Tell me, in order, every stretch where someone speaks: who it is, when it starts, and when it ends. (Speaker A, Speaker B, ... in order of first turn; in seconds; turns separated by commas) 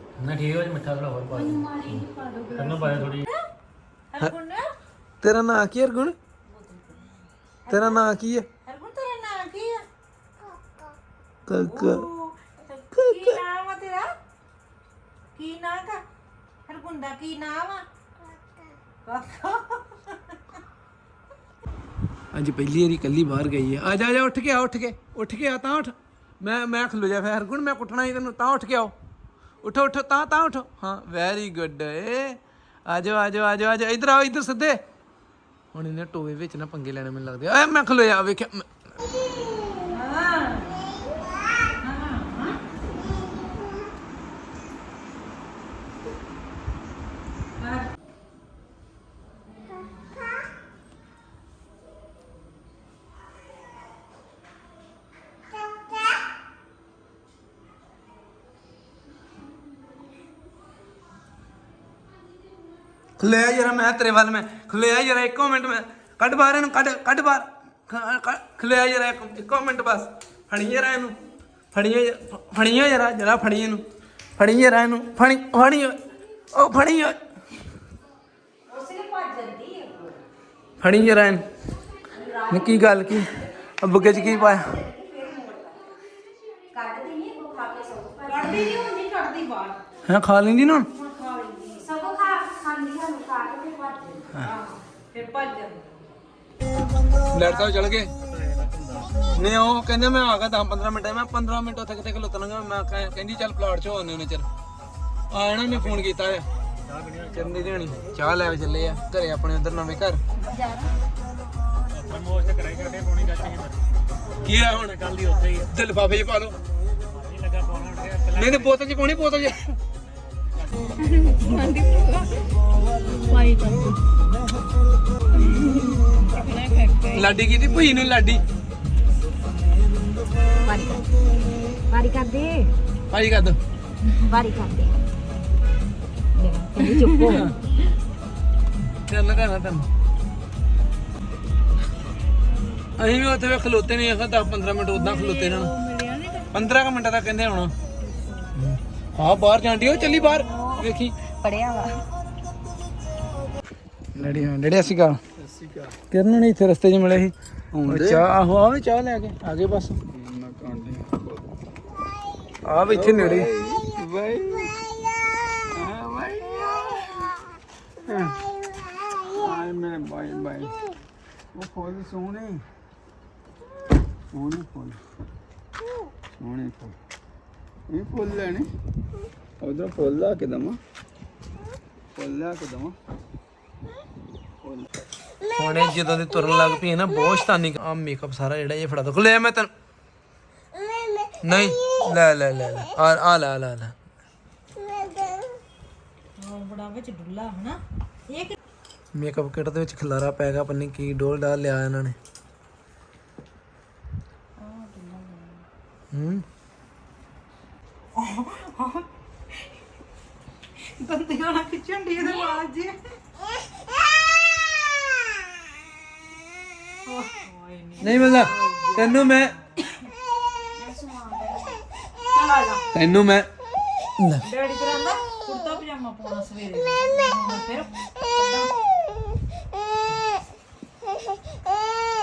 Speaker A: 0.2-3.3, Speaker B: 1.4-3.1, Speaker C: 4.1-4.7, Speaker D: 5.2-6.2, Speaker C: 6.5-8.0, Speaker D: 7.7-8.5, Speaker C: 8.6-9.9, Speaker D: 11.5-12.1, Speaker C: 11.6-14.1, Speaker D: 12.9-13.4, Speaker C: 15.3-16.0, Speaker C: 16.7-17.9, Speaker C: 19.1-20.2, Speaker D: 22.3-28.9, Speaker D: 29.6-34.8, Speaker D: 35.7-38.7, Speaker C: 39.8-41.0, Speaker C: 41.8-42.6, Speaker C: 47.6-47.9, Speaker D: 63.2-71.2, Speaker D: 71.7-73.8, Speaker D: 74.4-76.0, Speaker D: 76.5-77.2, Speaker B: 78.7-80.2, Speaker D: 80.8-81.4, Speaker B: 82.2-83.0, Speaker D: 82.5-84.8, Speaker B: 84.1-86.0, Speaker B: 86.7-88.9, Speaker C: 88.2-89.8, Speaker D: 90.1-90.9, Speaker C: 91.0-91.8, Speaker B: 91.8-94.3, Speaker C: 94.4-96.2, Speaker D: 97.3-98.1, Speaker C: 97.4-97.8, Speaker A: 98.2-99.3, Speaker D: 99.3-104.5, Speaker D: 105.3-106.5, Speaker A: 105.7-106.0, Speaker A: 106.8-108.0, Speaker D: 107.3-110.2, Speaker B: 110.4-110.9, Speaker A: 111.9-113.9, Speaker D: 114.4-115.1, Speaker A: 114.5-115.7, Speaker D: 115.7-116.6, Speaker A: 117.1-118.8, Speaker D: 118.3-119.6, Speaker A: 120.6-120.9, Speaker C: 121.0-122.3, Speaker B: 123.3-123.9, Speaker C: 126.5-127.0, Speaker D: 127.1-128.4, Speaker B: 130.6-131.1, Speaker B: 131.9-132.7, Speaker D: 133.1-133.6, Speaker B: 134.1-135.0, Speaker B: 136.3-137.5, Speaker D: 137.3-137.6, Speaker D: 138.9-139.9, Speaker D: 143.0-145.7, Speaker C: 145.3-146.4, Speaker D: 146.5-147.7, Speaker C: 148.1-148.3, Speaker D: 148.5-151.1, Speaker B: 150.0-152.0, Speaker D: 154.2-155.2, Speaker E: 155.4-156.0, Speaker D: 156.1-160.0, Speaker E: 157.8-158.2, Speaker E: 160.1-161.4, Speaker D: 162.7-163.5, Speaker E: 162.9-164.8, Speaker E: 165.7-167.3, Speaker E: 168.1-168.4, Speaker E: 169.3-170.8, Speaker E: 171.5-172.6, Speaker E: 174.3-175.0, Speaker E: 176.4-176.9, Speaker E: 177.9-178.7, Speaker E: 179.6-180.8, Speaker E: 182.2-182.9, Speaker E: 184.6-184.9, Speaker D: 185.5-189.7, Speaker D: 191.4-194.0, Speaker C: 196.4-198.6, Speaker D: 199.1-202.2, Speaker C: 204.6-205.6, Speaker D: 206.1-206.4, Speaker C: 208.2-209.1, Speaker C: 210.9-213.0, Speaker C: 217.1-220.0, Speaker D: 218.0-219.6, Speaker B: 221.0-221.7, Speaker C: 222.3-222.8, Speaker D: 222.9-223.5, Speaker D: 224.2-224.4, Speaker C: 224.4-228.7